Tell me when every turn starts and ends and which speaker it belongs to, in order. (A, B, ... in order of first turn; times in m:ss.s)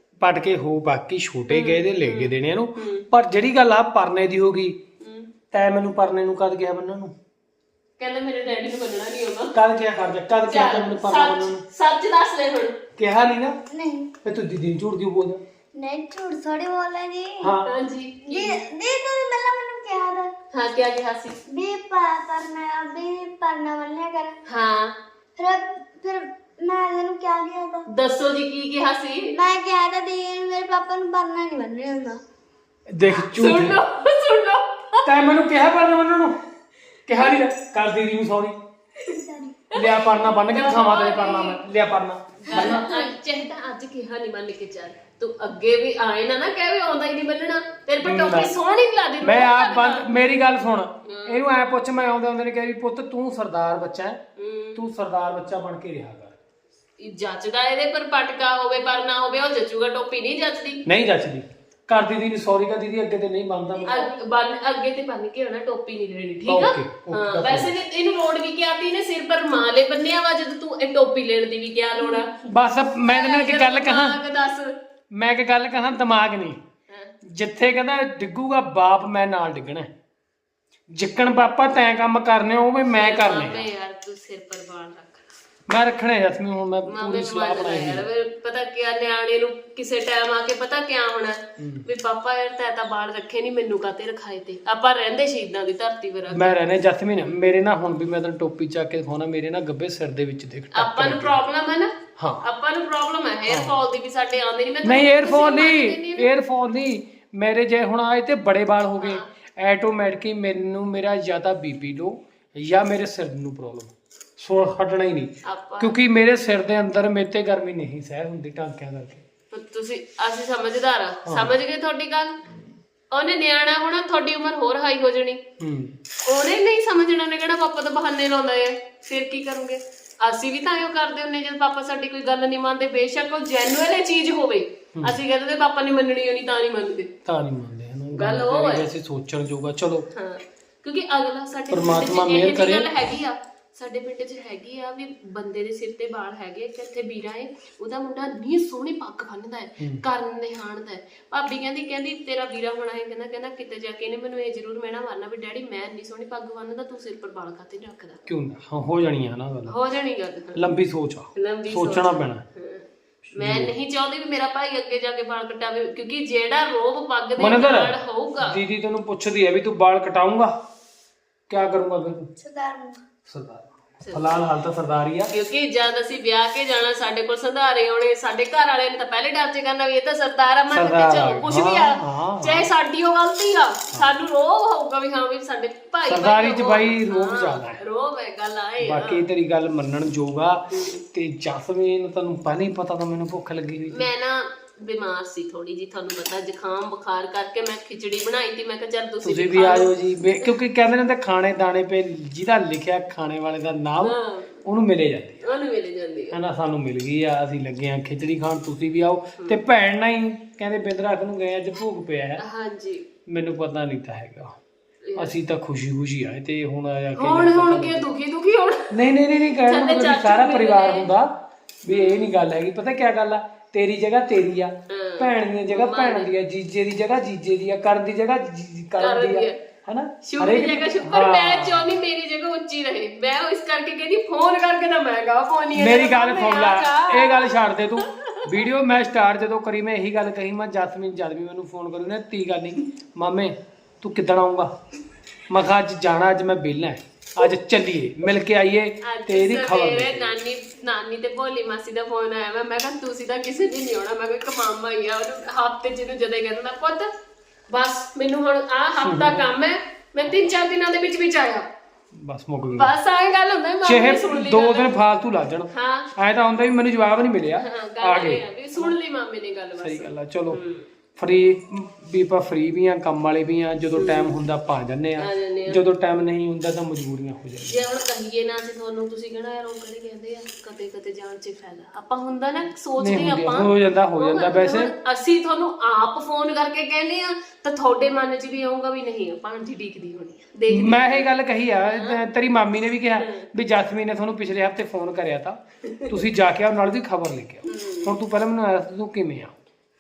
0:00.2-0:04.8 A
0:01.5-0:03.1 B
0:05.0-0:05.3 B
0:05.5-0:07.1 A
0:08.0-0:09.5 B
0:09.5-0:11.6 A
0:10.5-0:12.8 B
0:13.0-0:13.6 A
0:13.7-0:14.1 C
0:14.2-0:15.4 A
0:15.8-0:17.6 C
0:17.4-0:17.7 A
0:17.7-0:18.6 B
0:18.2-0:20.3 C
0:20.5-0:21.4 B
0:21.5-0:24.4 C
0:24.5-0:25.0 B
0:25.4-0:27.9 C
0:27.9-0:29.4 B
0:29.3-0:32.2 C
0:32.9-0:33.8 A
0:33.1-0:35.1 B
0:35.0-0:36.4 A
0:37.1-0:38.6 A
0:39.1-0:39.6 C
0:39.7-0:43.0 A
0:39.8-0:41.6 B
0:42.5-0:50.1 B
0:48.0-0:48.5 A
0:49.2-0:54.2 A
0:51.0-0:51.4 B
0:54.4-0:54.8 B
0:54.8-0:56.4 A
0:57.0-1:00.8 B
1:00.9-1:04.0 A
1:03.7-1:04.2 C
1:03.9-1:12.3 B
1:06.4-1:07.7 A
1:12.4-1:14.2 A
1:13.1-1:14.8 B
1:15.1-1:16.6 A
1:16.9-1:17.1 B
1:17.2-1:19.9 A
1:20.9-1:23.7 A
1:22.9-1:25.2 B
1:25.7-1:28.0 A
1:26.9-1:36.6 B
1:31.6-1:31.9 A
1:36.3-1:41.4 A
1:40.7-1:41.9 B
1:42.2-1:42.4 A
1:42.4-1:46.3 B
1:43.5-1:43.8 A
1:44.8-1:59.2 A
1:49.0-1:49.3 B
1:55.4-1:56.0 B
1:59.5-2:02.4 B
2:01.3-2:01.5 A
2:03.1-2:05.4 B
2:05.6-2:06.0 A
2:06.3-2:17.1 B
2:17.3-2:20.1 A
2:18.2-2:18.9 B
2:20.1-2:38.2 B
2:21.7-2:22.9 A
2:38.3-2:39.8 A
2:39.7-2:40.6 B
2:40.6-2:42.4 A
2:41.4-2:42.8 B
2:43.3-2:43.7 A
2:43.4-2:48.6 B
2:47.4-2:50.5 A
2:51.5-2:52.3 A
2:52.4-2:53.0 C
2:53.3-2:55.3 A
2:54.0-2:54.5 B
2:55.3-3:09.2 B
3:00.7-3:02.7 A
3:06.1-3:07.8 A
3:08.8-3:14.1 A
3:10.7-3:11.0 B
3:13.9-3:19.9 B
3:19.2-3:24.2 A
3:24.0-3:24.6 B
3:24.7-3:25.5 A
3:25.4-3:26.3 B
3:26.3-3:32.4 A
3:32.4-3:33.1 B
3:33.3-3:34.6 A
3:35.0-3:35.4 B
3:35.2-3:38.1 A
3:37.2-3:39.0 B
3:38.9-3:51.9 A
3:39.7-3:41.1 B
3:41.9-3:42.3 B
3:44.9-3:46.3 B
3:49.0-3:49.6 B
3:50.2-3:57.6 B
3:55.8-4:04.7 A
4:05.5-4:10.3 A
4:09.0-4:17.1 B
4:17.7-4:21.7 B
4:19.0-4:19.4 A
4:22.2-4:22.9 A
4:22.7-4:25.0 B
4:23.8-4:28.9 A
4:25.7-4:26.1 B
4:27.6-4:30.8 B
4:29.8-4:30.6 A
4:31.2-4:37.8 A
4:34.0-4:34.3 B
4:35.2-4:35.8 B
4:37.7-4:51.3 B
4:43.0-4:44.9 A
4:50.7-4:59.5 A
4:51.9-4:52.2 B
4:57.7-4:58.1 B